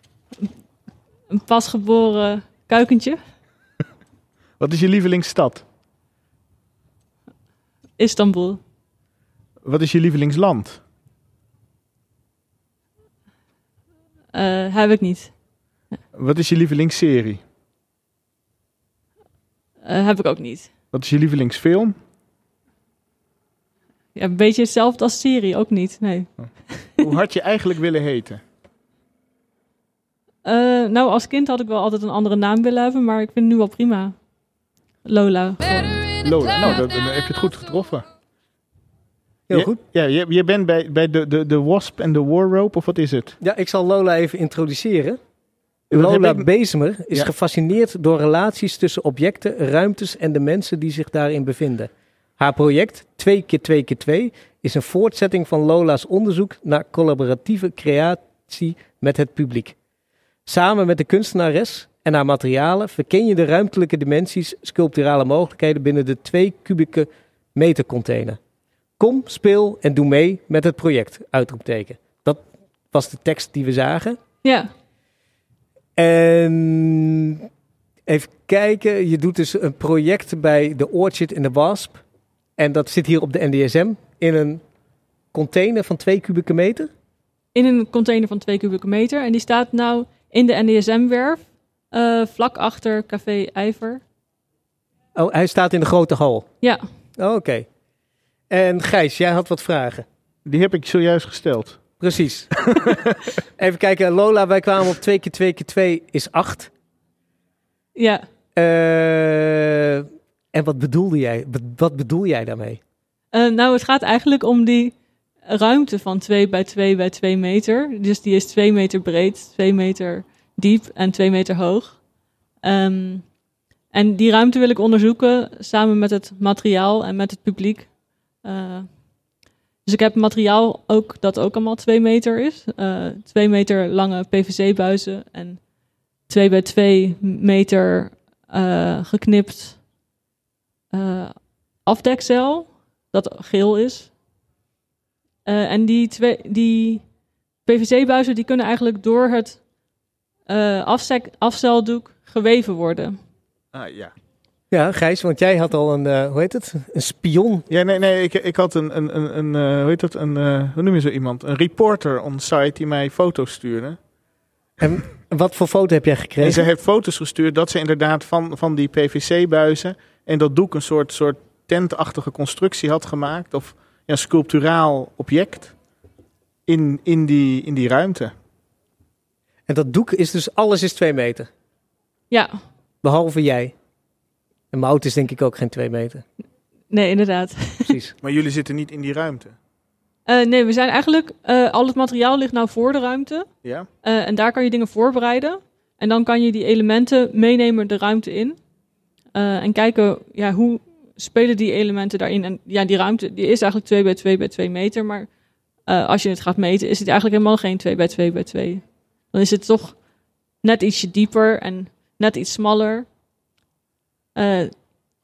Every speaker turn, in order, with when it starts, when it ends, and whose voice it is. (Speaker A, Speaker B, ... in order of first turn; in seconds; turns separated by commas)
Speaker A: 1.3-3.2, Speaker B: 4.6-5.6, Speaker A: 8.0-8.6, Speaker B: 9.6-10.8, Speaker A: 14.3-15.3, Speaker B: 16.1-17.4, Speaker A: 19.8-20.7, Speaker B: 20.9-22.0, Speaker A: 24.1-27.1, Speaker B: 27.0-28.4, Speaker A: 30.4-34.2, Speaker A: 35.0-36.8, Speaker B: 36.2-38.1, Speaker C: 39.5-39.8, Speaker B: 39.5-43.4, Speaker C: 43.4-45.2, Speaker C: 45.9-59.8, Speaker B: 45.9-46.5, Speaker C: 60.5-68.4, Speaker C: 69.0-74.2, Speaker A: 74.4-74.7, Speaker C: 76.0-77.4, Speaker C: 78.1-82.0, Speaker C: 82.6-84.6, Speaker C: 85.3-86.9, Speaker A: 87.5-94.0, Speaker C: 95.2-96.5, Speaker C: 97.2-97.7, Speaker C: 98.5-100.1, Speaker B: 100.5-101.8, Speaker C: 102.0-102.5, Speaker B: 102.7-103.0, Speaker C: 103.6-106.7, Speaker A: 108.0-108.2, Speaker C: 108.6-112.8, Speaker A: 113.3-122.0, Speaker A: 122.6-123.3, Speaker A: 123.9-129.0, Speaker A: 129.9-135.7, Speaker A: 136.3-139.8, Speaker A: 140.9-144.1, Speaker A: 145.5-147.1, Speaker A: 147.7-149.6, Speaker A: 150.5-153.2, Speaker B: 153.7-154.1, Speaker C: 154.7-157.7, Speaker B: 157.7-164.0, Speaker C: 164.8-166.7, Speaker B: 166.4-175.7, Speaker B: 176.7-178.3, Speaker C: 179.7-181.5, Speaker A: 182.3-182.6, Speaker C: 183.0-183.8, Speaker C: 184.7-186.2, Speaker A: 186.9-187.9, Speaker C: 187.9-188.1, Speaker B: 188.2-189.6, Speaker A: 190.3-193.5, Speaker A: 194.0-198.6, Speaker A: 199.3-205.3, Speaker A: 205.9-210.0, Speaker A: 210.6-213.1, Speaker A: 214.4-214.8